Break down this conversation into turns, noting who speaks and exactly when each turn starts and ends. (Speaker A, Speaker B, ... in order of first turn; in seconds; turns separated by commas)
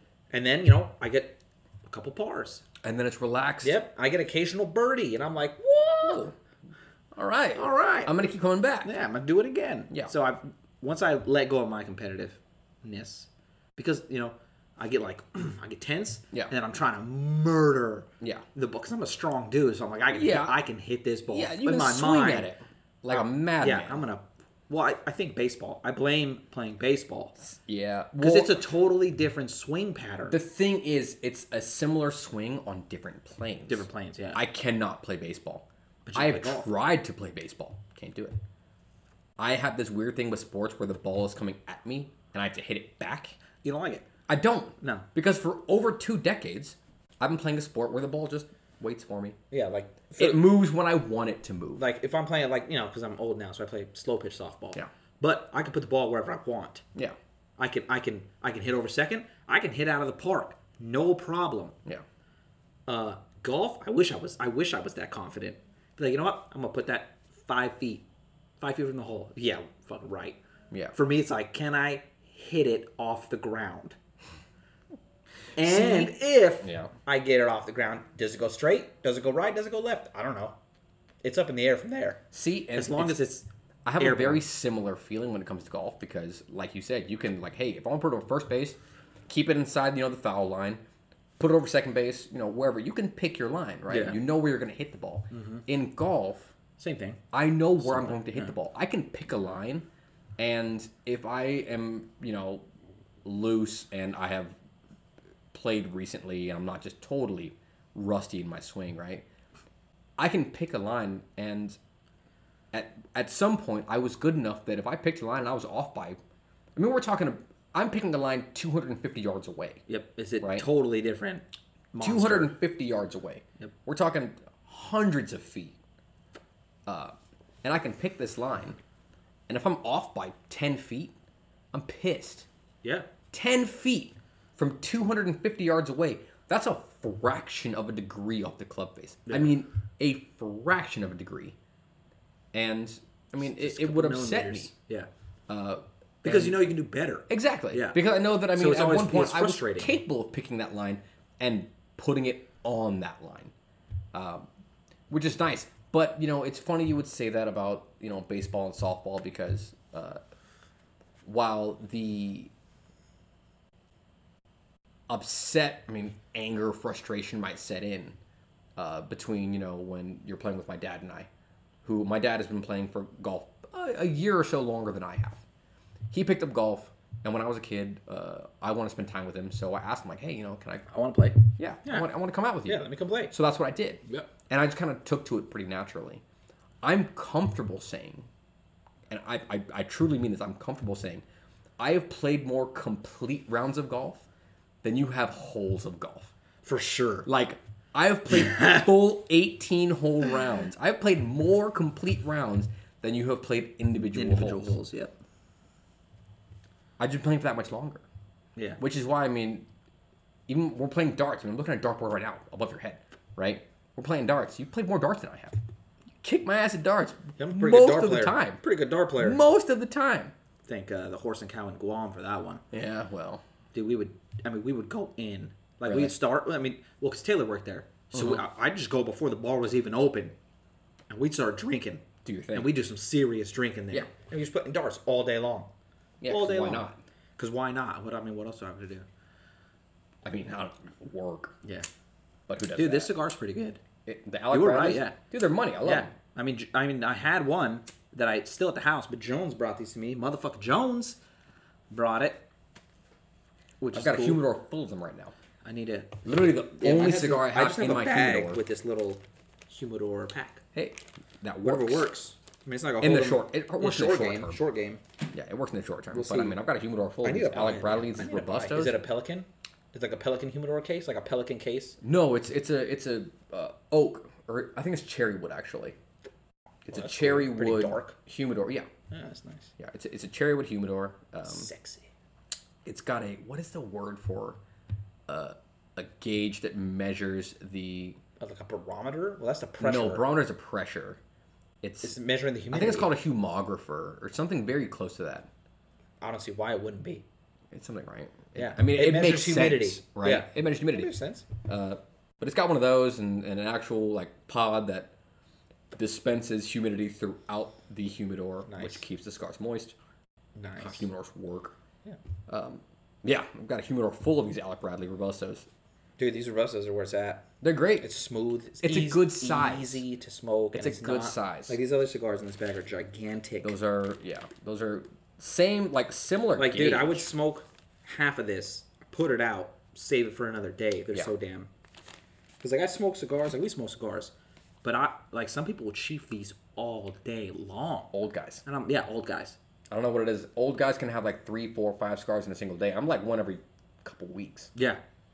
Speaker A: 0.3-2.6, Speaker B: 2.8-3.8, Speaker A: 3.6-6.3, Speaker B: 6.0-6.3, Speaker B: 7.2-8.9, Speaker A: 7.5-8.2, Speaker A: 8.8-22.5, Speaker B: 20.1-20.6, Speaker B: 21.3-24.0, Speaker A: 23.1-27.4, Speaker B: 27.4-28.6, Speaker A: 28.2-30.4, Speaker B: 30.3-38.4, Speaker A: 33.7-34.4, Speaker A: 36.0-36.7, Speaker B: 39.4-43.4, Speaker A: 43.6-44.1, Speaker B: 44.3-49.4, Speaker A: 44.8-45.1, Speaker A: 49.5-50.4, Speaker B: 50.2-51.8, Speaker A: 51.8-56.8, Speaker A: 57.6-61.8, Speaker A: 62.9-68.0, Speaker A: 68.6-70.4, Speaker A: 70.9-74.0, Speaker A: 75.6-80.6, Speaker B: 75.6-76.9, Speaker A: 81.2-82.2, Speaker B: 82.3-83.2, Speaker A: 82.8-83.5, Speaker B: 83.8-90.8, Speaker A: 84.0-84.4, Speaker B: 91.4-96.5, Speaker A: 93.9-94.2, Speaker A: 95.3-95.7, Speaker A: 96.8-97.2, Speaker B: 97.3-99.9, Speaker A: 97.8-98.5, Speaker B: 100.4-102.6, Speaker B: 103.2-104.6, Speaker B: 105.5-109.3, Speaker B: 110.2-111.8, Speaker B: 112.7-116.2, Speaker B: 116.8-119.8, Speaker A: 119.9-122.5, Speaker B: 120.4-120.7, Speaker B: 122.0-125.8, Speaker B: 126.9-127.1, Speaker B: 127.6-128.8, Speaker B: 129.5-131.2, Speaker B: 131.7-132.5, Speaker B: 133.3-141.6, Speaker A: 139.3-139.5, Speaker B: 142.5-144.7, Speaker A: 143.4-145.1, Speaker B: 145.5-146.6, Speaker A: 146.2-148.0, Speaker B: 147.3-153.5, Speaker A: 148.5-149.9, Speaker B: 154.1-154.5, Speaker B: 155.1-160.2, Speaker B: 161.2-162.5, Speaker B: 165.1-168.2, Speaker B: 168.8-171.3, Speaker B: 171.8-175.4, Speaker B: 176.1-180.9, Speaker A: 180.9-182.1, Speaker B: 181.6-186.2, Speaker A: 182.7-183.3, Speaker B: 186.8-188.3, Speaker B: 189.1-191.2, Speaker B: 191.8-194.3, Speaker B: 194.8-196.3, Speaker A: 196.7-197.3, Speaker B: 197.3-204.8, Speaker A: 198.3-198.9, Speaker A: 204.1-205.1, Speaker B: 207.0-208.1, Speaker B: 208.8-209.7, Speaker B: 210.5-215.6, Speaker B: 216.2-218.6, Speaker A: 217.4-219.4, Speaker B: 219.2-220.3, Speaker A: 220.7-222.6, Speaker B: 222.7-223.4, Speaker A: 223.7-230.3, Speaker B: 225.9-226.1, Speaker B: 228.1-228.4, Speaker A: 231.1-232.0, Speaker B: 232.2-232.8, Speaker A: 232.5-235.7, Speaker B: 236.2-237.0, Speaker A: 236.3-236.9, Speaker A: 237.4-239.1, Speaker B: 240.2-241.6, Speaker B: 242.5-243.1, Speaker A: 242.8-243.8, Speaker B: 244.1-246.1, Speaker A: 244.5-245.2, Speaker A: 245.8-251.2, Speaker A: 251.9-252.5, Speaker A: 253.8-254.4, Speaker B: 253.9-255.3, Speaker A: 255.6-260.6, Speaker B: 256.2-258.6, Speaker B: 260.7-262.1, Speaker A: 261.6-265.0, Speaker B: 263.0-264.6, Speaker B: 265.3-269.0, Speaker A: 266.1-266.6, Speaker A: 267.2-272.0, Speaker B: 272.0-276.0, Speaker A: 276.9-278.2, Speaker B: 276.9-278.9, Speaker A: 279.1-279.7, Speaker B: 279.8-281.7, Speaker A: 281.4-282.1, Speaker B: 282.9-284.6, Speaker B: 285.3-288.2, Speaker A: 288.4-290.3, Speaker B: 289.8-291.2, Speaker B: 291.8-292.2, Speaker A: 292.0-293.1, Speaker B: 292.7-295.5, Speaker A: 296.2-297.2, Speaker B: 297.7-305.1, Speaker A: 298.6-301.4, Speaker B: 305.9-309.9, Speaker A: 308.7-309.0, Speaker A: 310.6-311.1, Speaker B: 310.7-311.8, Speaker B: 312.5-315.7, Speaker A: 316.2-317.5, Speaker B: 317.6-318.1, Speaker A: 318.0-323.8, Speaker B: 318.8-320.0, Speaker B: 320.7-321.8, Speaker B: 323.6-327.3, Speaker A: 326.6-331.7, Speaker A: 332.6-334.3, Speaker A: 334.8-338.1, Speaker B: 338.1-338.6, Speaker A: 338.6-339.6, Speaker B: 339.9-344.7, Speaker A: 344.8-345.0